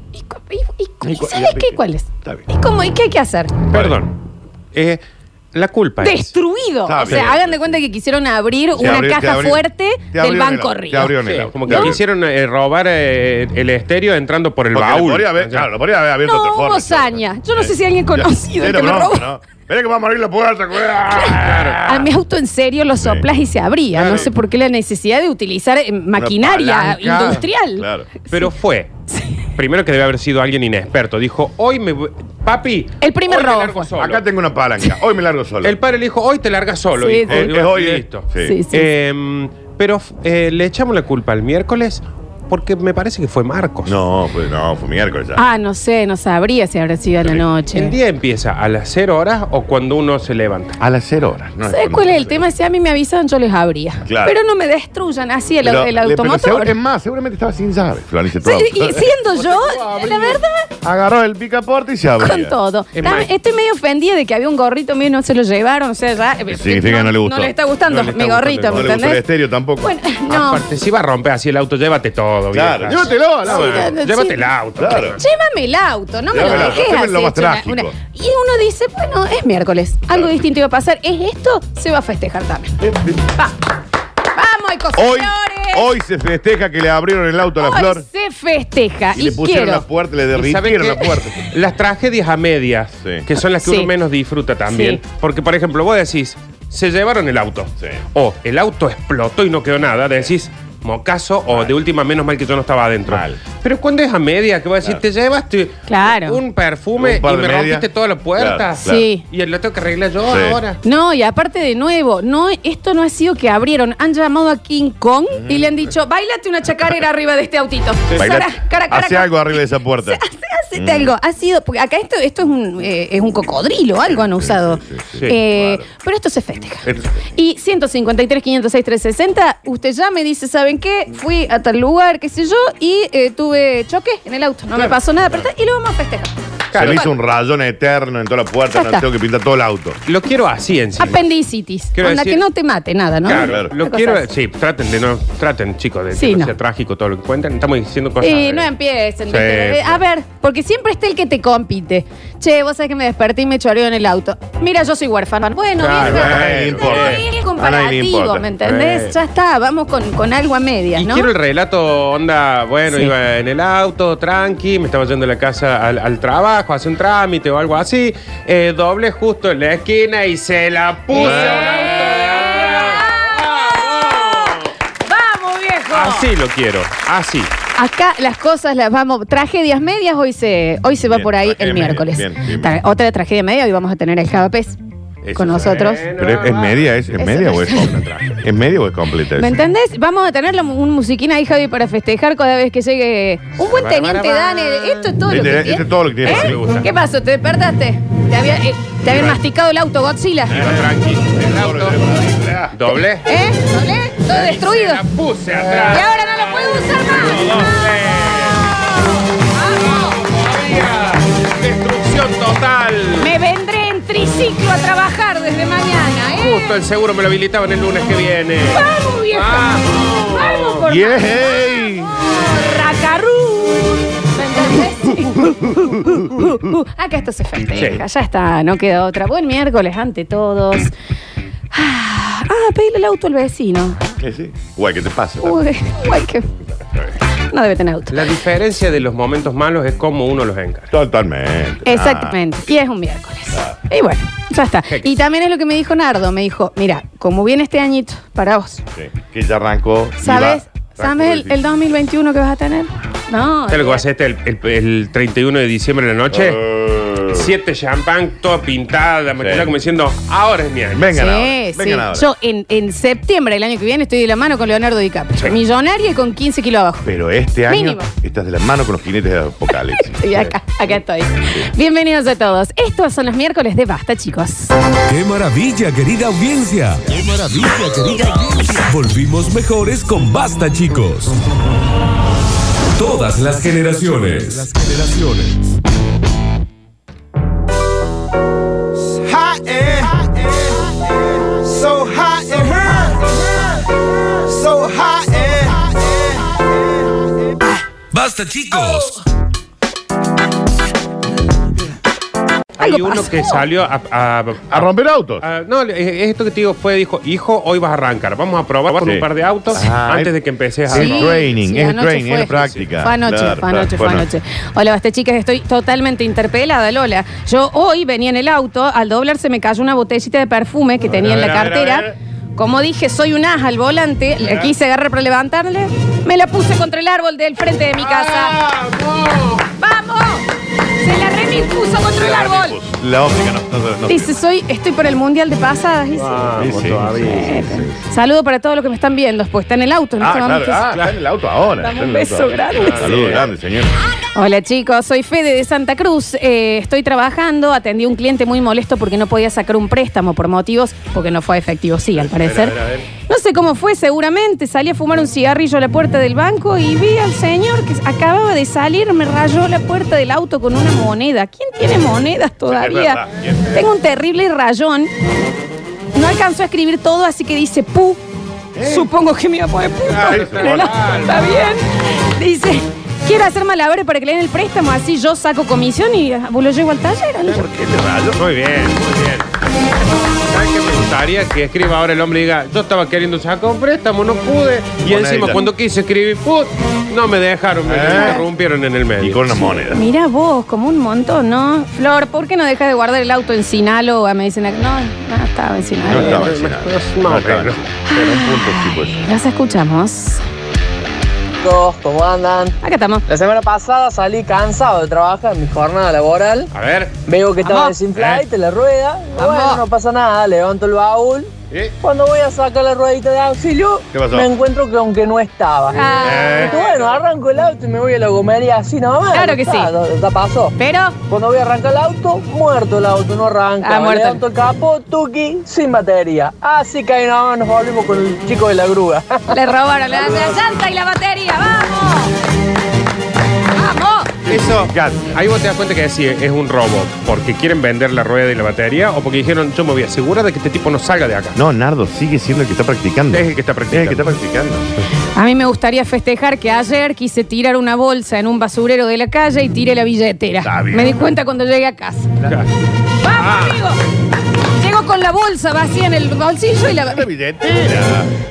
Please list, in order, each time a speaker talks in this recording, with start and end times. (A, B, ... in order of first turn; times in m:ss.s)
0:00.1-0:03.5 A
0:01.0-0:02.4 B
0:03.7-0:04.0 B
0:03.7-0:04.1 C
0:04.7-0:05.0 C
0:05.5-0:06.3 C
0:06.0-0:11.9 A
0:06.8-0:07.7 B
0:07.0-0:07.4 C
0:08.7-0:12.0 B
0:11.2-0:15.7 C
0:14.7-0:22.1 B
0:16.2-0:19.3 A
0:21.1-0:28.4 A
0:21.4-0:21.8 C
0:23.0-0:23.2 B
0:24.0-0:24.3 C
0:26.2-0:28.1 B
0:26.9-0:27.4 C
0:28.3-0:28.9 C
0:29.6-0:34.2 C
0:33.0-0:33.9 A
0:33.9-0:35.8 B
0:35.6-0:43.9 C
0:37.0-0:37.5 A
0:37.3-0:38.6 B
0:38.4-0:38.9 A
0:43.8-0:45.4 B
0:45.4-0:47.9 A
0:47.7-0:50.8 C
0:50.8-0:52.5 B
0:51.7-0:56.8 A
0:54.0-0:54.4 B
0:55.6-0:59.1 B
0:58.4-1:00.7 A
0:59.5-1:00.3 C
1:00.8-1:02.6 B
1:02.2-1:09.2 A
1:03.0-1:03.3 C
1:06.5-1:07.5 B
1:07.9-1:09.0 C
1:08.6-1:09.9 B
1:09.8-1:10.6 A
1:10.3-1:15.2 C
1:12.5-1:14.0 B
1:13.4-1:14.5 A
1:14.8-1:15.2 B
1:15.2-1:22.7 A
1:16.3-1:17.9 B
1:22.8-1:23.3 B
1:24.3-1:25.9 A
1:24.9-1:28.0 B
1:27.6-1:29.8 A
1:29.1-1:31.5 B
1:30.3-1:50.8 C
1:33.6-1:33.9 A
1:34.7-1:35.0 A
1:43.1-1:43.4 B
1:45.9-1:46.4 A
1:47.0-1:49.1 B
1:48.8-1:49.2 A
1:50.2-1:50.6 B
1:50.8-2:16.3 A
1:55.3-1:55.8 B
1:58.1-2:00.2 B
2:00.7-2:01.1 B
2:04.1-2:05.8 B
2:06.8-2:07.2 B
2:14.7-2:15.4 B
2:16.7-2:17.1 C
2:16.7-2:20.0 B
2:18.7-2:19.0 A
2:20.0-2:21.2 C
2:21.0-2:24.2 A
2:21.9-2:22.4 C
2:23.2-2:28.7 C
2:23.3-2:23.7 B
2:26.1-2:26.5 A
2:28.2-2:41.3 A
2:29.3-2:30.0 C
2:35.8-2:37.2 C
2:36.0-2:38.5 B
2:38.6-2:39.1 C
2:40.9-2:54.7 C
2:51.1-2:56.3 A
2:51.2-2:52.2 B
2:55.9-2:57.5 C
2:57.8-3:04.8 A
3:01.0-3:02.8 B
3:05.2-3:08.2 C
3:05.4-3:06.0 A
3:06.2-3:09.6 B
3:07.2-3:07.9 A
3:09.4-3:20.6 A
3:13.7-3:15.0 C
3:15.3-3:16.6 B
3:16.2-3:16.9 C
3:19.1-3:19.4 C
3:20.5-3:22.0 C
3:20.5-3:22.7 B
3:22.7-3:23.3 C
3:23.2-3:25.0 A
3:24.3-3:28.7 C
3:25.5-3:26.0 B
3:25.9-3:27.9 A
3:28.4-3:30.2 A
3:29.8-3:33.3 C
3:33.2-3:36.7 A
3:36.4-3:40.8 C
3:38.7-3:39.8 A
3:40.3-3:50.9 A
3:40.8-3:42.2 B
3:45.4-3:46.7 B
3:47.8-3:48.0 C
3:51.7-3:54.0 A
3:54.2-3:55.6 B
3:55.4-3:56.5 A
3:57.5-3:58.2 A
3:58.1-4:00.9 C
4:00.9-4:02.3 B
4:01.8-4:08.8 A
4:04.9-4:05.2 C
4:08.9-4:11.6 B
4:10.2-4:14.0 A
4:13.7-4:16.6 C
4:16.3-4:17.5 B
4:17.3-4:21.1 C
4:19.4-4:19.7 B
4:20.9-4:22.3 B
4:21.1-4:27.1 A
4:27.0-4:30.3 B
4:27.7-4:28.1 A
4:29.9-4:34.7 A
4:35.1-4:41.4 D
4:43.0-4:45.7 D
4:49.0-4:57.1 E
4:58.1-4:59.2 D
5:02.8-5:11.5 C
5:02.8-5:03.6 A
5:04.7-5:05.4 B
5:08.9-5:10.3 B
5:10.8-5:14.3 B
5:10.9-5:28.6 A
5:12.5-5:12.9 C
5:21.1-5:22.1 B
5:21.2-5:21.8 C
5:28.0-5:29.6 C
5:29.8-5:30.4 A
5:31.0-5:32.8 A
5:32.2-5:34.3 B
5:34.1-5:36.4 A
5:36.2-5:37.6 C
5:36.6-5:38.0 B
5:37.2-5:40.9 A
5:40.2-5:43.9 B
5:41.8-5:43.1 A
5:42.8-5:43.4 C
5:44.3-6:05.1 A
5:52.4-5:53.0 C
6:02.6-6:03.8 B
6:06.1-6:08.2 A
6:08.7-6:09.1 B
6:08.8-6:17.6 A
6:10.0-6:11.1 B
6:10.1-6:12.3 C
6:17.4-6:18.4 B
6:18.4-6:19.5 C
6:20.4-6:29.8 C
6:25.0-6:25.7 B
6:27.8-6:28.5 B
6:28.1-6:28.4 A
6:29.2-6:30.0 B
6:29.9-6:36.5 A
6:35.8-6:39.3 B
6:36.1-6:38.2 C
6:38.1-6:40.4 A
6:41.6-6:46.7 F
6:42.8-6:43.2 A
6:46.7-6:47.2 C
6:47.2-6:56.1 F
6:47.6-6:48.0 A
6:49.4-6:49.8 A
6:54.1-6:54.5 B
6:55.9-6:56.8 A
6:56.0-6:57.1 C
6:56.2-6:56.8 B
6:56.6-7:00.7 F
6:59.3-6:59.9 A
7:00.8-7:01.1 A
7:01.3-7:09.6 F
7:03.8-7:04.4 A
7:09.5-7:12.3 A
7:13.8-7:14.3 A
7:14.4-7:15.4 B
7:14.5-7:21.6 C
7:21.5-7:24.9 B
7:23.3-7:24.3 C
7:25.4-7:32.3 A
7:30.6-7:31.2 B
7:33.2-7:34.0 A
7:33.3-7:33.8 C
7:34.8-7:37.3 A
7:37.0-7:38.3 B